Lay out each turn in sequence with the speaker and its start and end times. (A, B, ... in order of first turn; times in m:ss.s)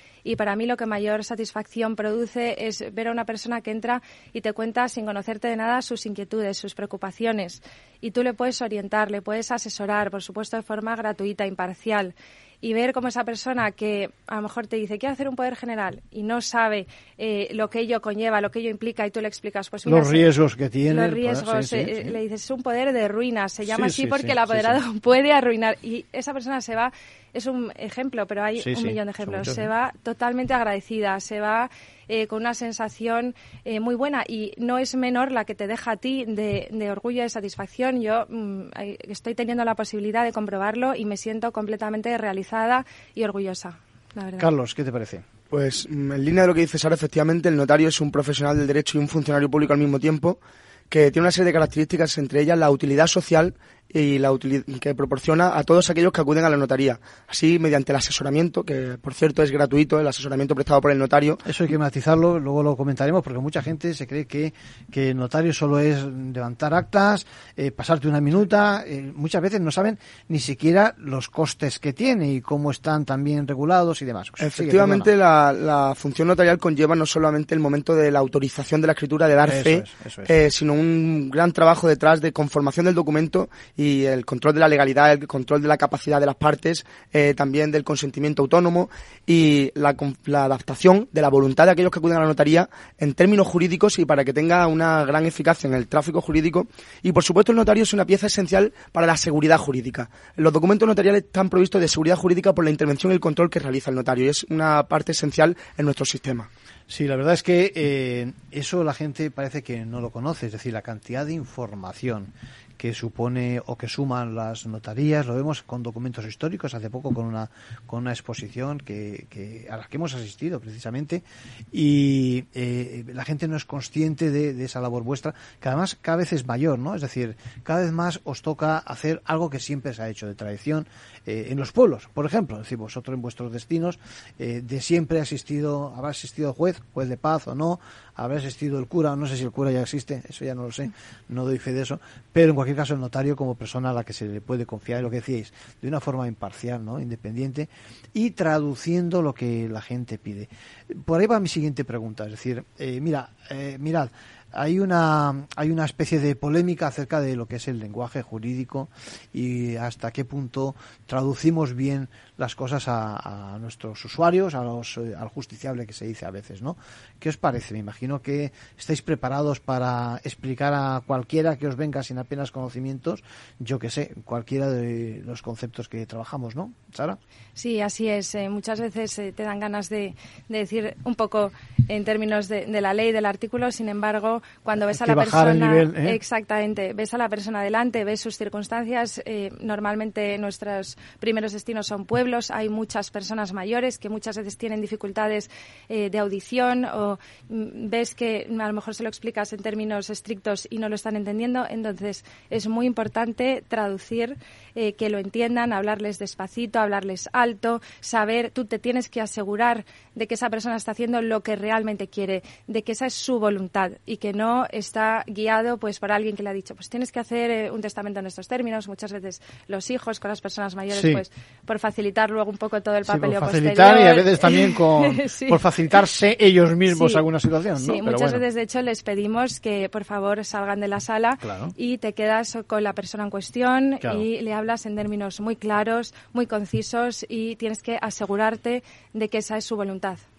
0:00.2-0:20.3 A
0:19.8-0:22.2 B
0:20.9-0:44.5 A
0:23.6-0:24.8 B
0:28.6-0:29.7 B
0:44.4-0:45.2 B
0:45.5-0:50.4 C
0:50.9-1:01.4 C
1:01.4-1:15.1 B
1:14.4-1:46.5 C
1:19.4-1:20.3 B
1:46.9-2:57.2 B
2:57.6-3:45.6 A
3:04.8-3:06.2 B
3:40.9-3:41.2 B
3:43.0-3:48.4 B
3:46.9-3:47.2 A
3:47.8-4:00.2 A
3:51.4-3:51.7 B